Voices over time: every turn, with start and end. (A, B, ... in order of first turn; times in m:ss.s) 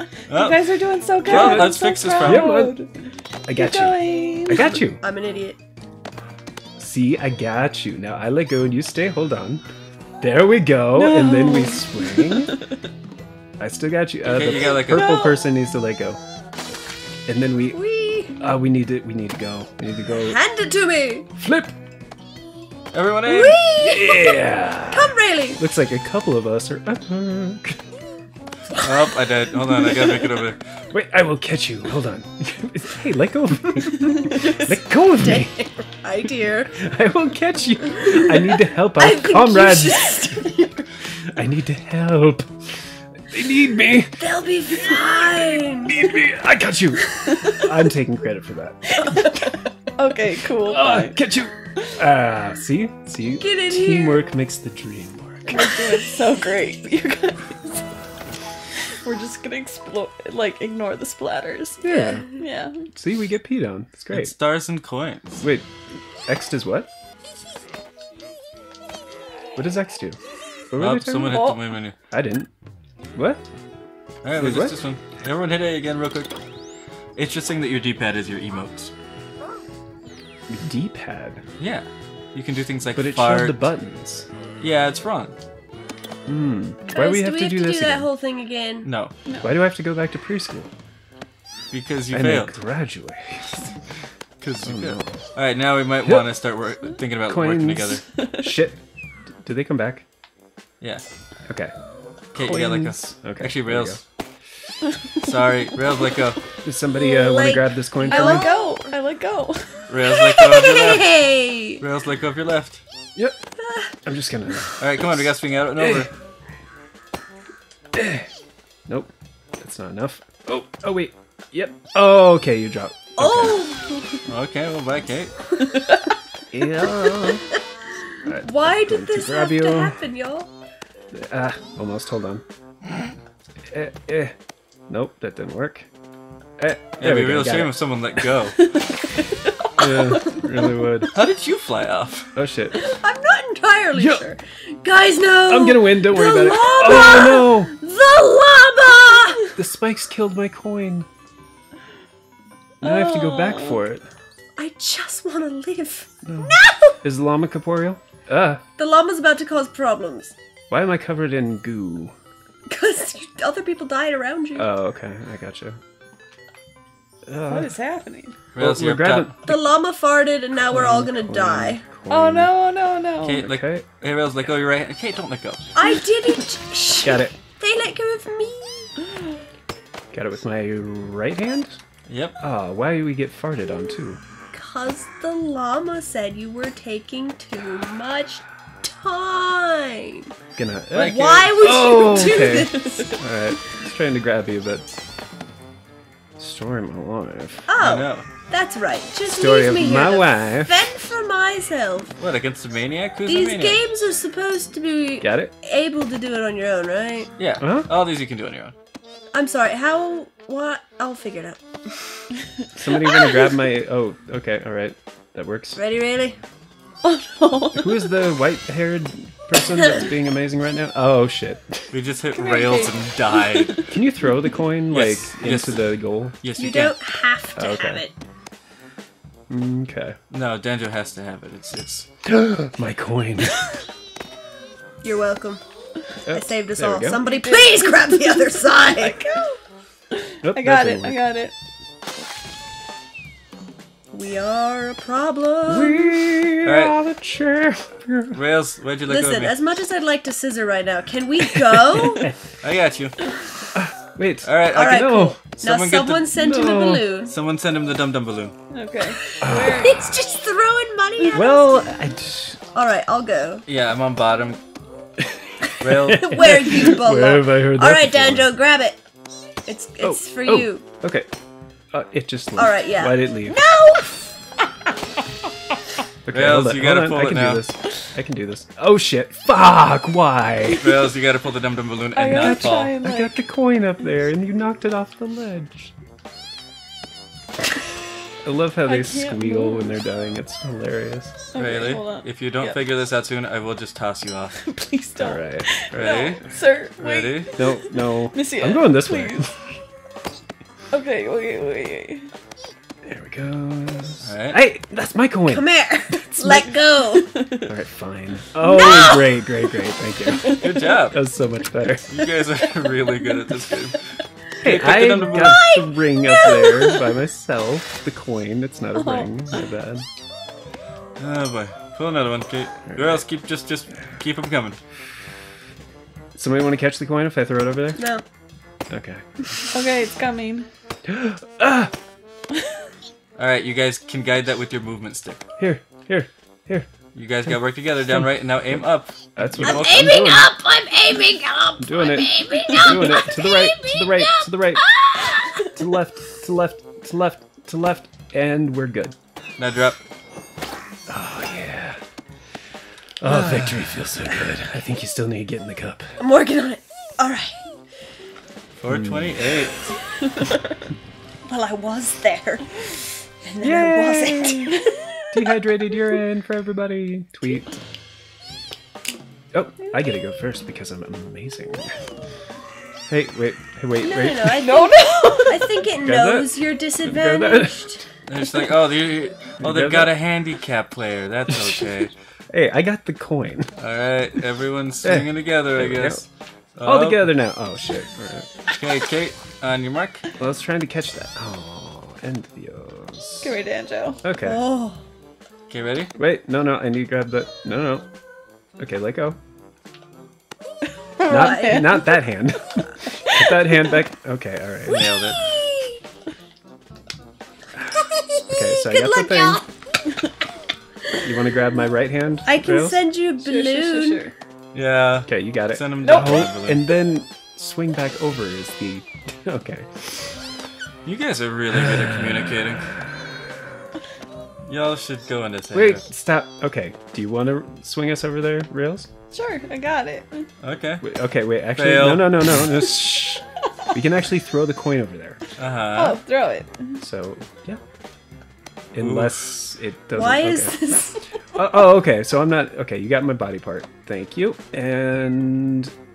0:00.3-0:00.7 A
0:00.3-0:02.9 B
0:01.2-0:02.6 A
0:01.2-0:02.8 C
0:03.4-0:05.0 C
0:03.5-0:04.8 B
0:05.0-0:05.6 D
0:06.8-0:09.6 C
0:10.2-0:12.6 C
0:10.9-0:12.5 B
0:13.6-0:16.2 C
0:14.2-0:15.3 A
0:17.3-0:17.8 C
0:17.7-0:18.4 D
0:18.4-0:20.4 C
0:20.1-0:21.3 D
0:21.4-0:21.7 C
0:22.9-0:23.6 A
0:23.2-0:25.6 D
0:23.8-0:27.8 C
0:28.7-0:30.6 A
0:29.8-0:30.1 D
0:30.9-0:35.6 C
0:34.1-0:36.7 D
0:36.7-0:40.4 C
0:38.1-0:40.8 D
0:41.2-0:42.5 C
0:43.3-0:44.2 C
0:44.2-0:46.2 D
0:44.8-0:49.4 C
0:49.0-0:49.4 D
0:50.0-0:51.2 B
0:50.6-0:55.7 C
0:53.4-0:54.2 D
0:55.5-0:57.8 B
0:59.0-1:02.8 B
1:01.8-1:02.2 C
1:02.9-1:04.3 C
1:04.1-1:05.4 A
1:05.4-1:05.7 C
1:06.3-1:06.9 C
1:09.6-1:10.2 C
1:10.7-1:11.5 C
1:10.8-1:11.9 A
1:11.3-1:11.6 B
1:12.1-1:12.5 C
1:13.1-1:13.4 C
1:14.2-1:16.3 A
1:14.3-1:14.8 C
1:17.2-1:18.9 A
1:20.5-1:21.4 C
1:21.6-1:23.6 A
1:22.9-1:24.3 C
1:24.6-1:25.3 A
1:26.2-1:28.1 C
1:26.9-1:28.9 D
1:28.8-1:29.1 A
1:29.2-1:29.5 B
1:29.4-1:30.7 C
1:31.7-1:32.6 A
1:32.1-1:33.7 C
1:34.4-1:38.0 A
1:34.6-1:35.2 C
1:37.3-1:38.8 C
1:39.4-1:40.0 C
1:41.4-1:41.7 C
1:42.3-1:44.0 A
1:42.3-1:44.0 C
1:45.2-1:46.4 A
1:46.6-1:48.5 C
1:46.9-1:48.9 D
1:48.0-1:49.8 B
1:49.9-1:51.1 A
1:50.1-1:51.8 D
1:51.8-1:52.8 A
1:53.6-1:54.0 D
1:54.0-1:56.1 C
1:54.8-1:56.1 A
1:58.0-1:58.3 C
1:58.9-2:03.6 C
2:03.2-2:04.2 D
2:04.3-2:05.3 A
2:06.5-2:07.5 C
2:08.2-2:10.0 C
2:08.4-2:10.5 D
2:11.1-2:12.4 C
2:13.7-2:14.3 C
2:14.9-2:15.9 C
2:16.6-2:17.7 C
2:17.0-2:18.8 A
2:19.2-2:20.0 B
2:19.8-2:21.1 C
2:21.1-2:22.3 A
2:22.3-2:22.8 C
2:22.7-2:29.5 D
2:23.9-2:24.2 C
2:25.5-2:27.7 C
2:29.5-2:31.1 C
2:32.8-2:33.8 B
2:32.8-2:34.0 C
2:34.6-2:37.0 D
2:36.2-2:38.6 C
2:38.8-2:40.3 D
2:40.7-2:42.1 C
2:42.7-2:44.7 D
2:44.6-2:45.8 C
2:47.2-2:47.7 C
2:47.5-2:48.4 B
2:48.5-2:49.3 A
2:48.6-2:49.6 C
2:49.4-2:51.8 D
2:50.7-2:52.5 C
2:52.1-2:53.4 B
2:53.2-2:55.6 A
2:53.4-2:53.8 C
2:55.7-2:58.9 D
2:57.0-2:57.3 C
3:00.1-3:01.8 C
3:02.1-3:02.4 A
3:02.4-3:04.2 C
3:04.5-3:10.3 D
3:10.6-3:14.8 C
3:10.9-3:11.5 A
3:10.9-3:13.2 D
3:16.4-3:17.7 C
3:17.7-3:22.1 D
3:17.8-3:18.3 A
3:19.2-3:20.7 C
3:22.2-3:23.8 A
3:23.2-3:27.3 D
3:25.2-3:25.5 C
3:27.4-3:28.7 A
3:27.6-3:27.9 C
3:29.3-3:31.9 D
3:32.8-3:35.8 C
3:35.8-3:36.4 D
3:37.0-3:38.2 B
3:37.7-3:41.9 C
3:41.9-3:43.8 A
3:42.3-3:43.9 B
3:43.9-3:46.4 C
3:44.9-3:45.8 A
3:46.4-3:47.0 A
3:46.6-3:48.1 D
3:47.6-3:48.0 C
3:49.5-3:50.2 C
3:50.3-3:52.1 A
3:52.2-3:53.7 C
3:55.0-3:55.6 D
3:56.3-3:57.2 C
3:56.3-3:59.2 D
3:57.2-3:59.6 B
4:00.1-4:01.5 B
4:00.4-4:01.2 C
4:04.1-4:06.2 D
4:05.7-4:08.4 C
4:06.6-4:07.0 A
4:08.3-4:09.6 A
4:09.1-4:12.3 D
4:11.8-4:12.3 C
4:12.6-4:13.3 A
4:13.7-4:15.4 C
4:14.4-4:16.3 A
4:14.7-4:17.3 D
4:16.3-4:17.1 C
4:17.3-4:18.5 A
4:18.7-4:20.0 B
4:19.2-4:21.8 D
4:19.4-4:20.2 C
4:21.3-4:22.6 C
4:22.7-4:23.6 D
4:23.7-4:24.6 A
4:25.7-4:28.5 C
4:25.8-4:26.7 A
4:26.0-4:29.0 D
4:29.6-4:30.8 D
4:30.0-4:31.3 C
4:31.9-4:33.6 C
4:32.6-4:34.3 D
4:36.2-4:41.0 C
4:36.3-4:37.6 A
4:40.7-4:43.0 A
4:42.1-4:43.4 B
4:42.3-4:45.9 C
4:48.4-4:51.5 C
4:48.8-4:49.9 B
4:51.5-4:52.8 B
4:51.5-4:54.6 A
4:54.6-4:59.4 B
4:55.2-4:56.3 C
4:55.9-4:56.4 A
4:57.0-4:57.5 A
4:57.6-4:59.7 C
5:00.9-5:02.3 B
5:03.0-5:05.6 C
5:04.2-5:04.6 A
5:05.5-5:07.3 D
5:06.4-5:07.7 B
5:07.7-5:12.0 C
5:08.6-5:09.5 D
5:10.4-5:11.2 A
5:12.1-5:15.7 A
5:14.6-5:20.0 C
5:15.3-5:17.1 D
5:19.0-5:19.3 B
5:21.2-5:24.8 A
5:22.9-5:23.2 C
5:26.3-5:28.1 C
5:28.0-5:28.2 D
5:28.9-5:29.5 C
5:29.7-5:30.7 B
5:31.0-5:31.9 C
5:33.4-5:35.4 A
5:35.6-5:36.9 C
5:37.1-5:40.3 A
5:39.4-5:40.5 C
5:39.6-5:45.7 D
5:41.8-5:44.8 C
5:45.6-5:49.2 C
5:49.6-5:50.0 A
5:51.1-5:52.0 C
5:53.2-5:56.2 C
5:53.2-5:53.6 A
5:56.2-5:57.6 D
5:58.8-5:59.9 A
5:58.9-5:59.3 C
6:01.4-6:05.0 D
6:03.6-6:04.7 C
6:05.3-6:07.7 C
6:09.5-6:11.9 C
6:13.1-6:14.7 C
6:14.0-6:18.0 D
6:14.5-6:15.8 B
6:16.0-6:17.8 C
6:18.3-6:22.1 A
6:19.6-6:20.1 C
6:21.5-6:21.8 C
6:22.5-6:23.7 C
6:23.8-6:26.2 A
6:25.0-6:26.2 C
6:26.8-6:27.3 A
6:26.8-6:28.5 C
6:28.7-6:30.2 A
6:30.4-6:33.5 C
6:33.4-6:34.2 B
6:34.2-6:34.6 C
6:34.4-6:35.0 D
6:35.7-6:36.1 A
6:36.2-6:38.0 C
6:38.8-6:39.4 C
6:41.2-6:42.2 B
6:41.2-6:42.0 D
6:41.3-6:45.1 C
6:43.2-6:43.6 B
6:44.9-6:45.4 A
6:45.3-6:46.0 D
6:47.9-6:49.6 D
6:48.5-6:49.6 C
6:51.2-6:53.0 C
6:52.4-6:54.3 D
6:53.4-6:54.3 B
6:54.7-6:56.8 A
6:55.3-7:00.3 C
6:56.0-6:56.5 B
7:01.0-7:02.9 A
7:01.9-7:02.5 C
7:04.6-7:06.0 A
7:05.7-7:09.1 C
7:09.3-7:10.5 B
7:10.6-7:11.1 A
7:11.0-7:15.4 C
7:11.7-7:12.7 A
7:15.6-7:16.2 A
7:15.9-7:17.0 B
7:17.0-7:17.8 C
7:18.9-7:20.8 C
7:19.0-7:19.5 A
7:20.1-7:21.2 D
7:21.5-7:25.9 C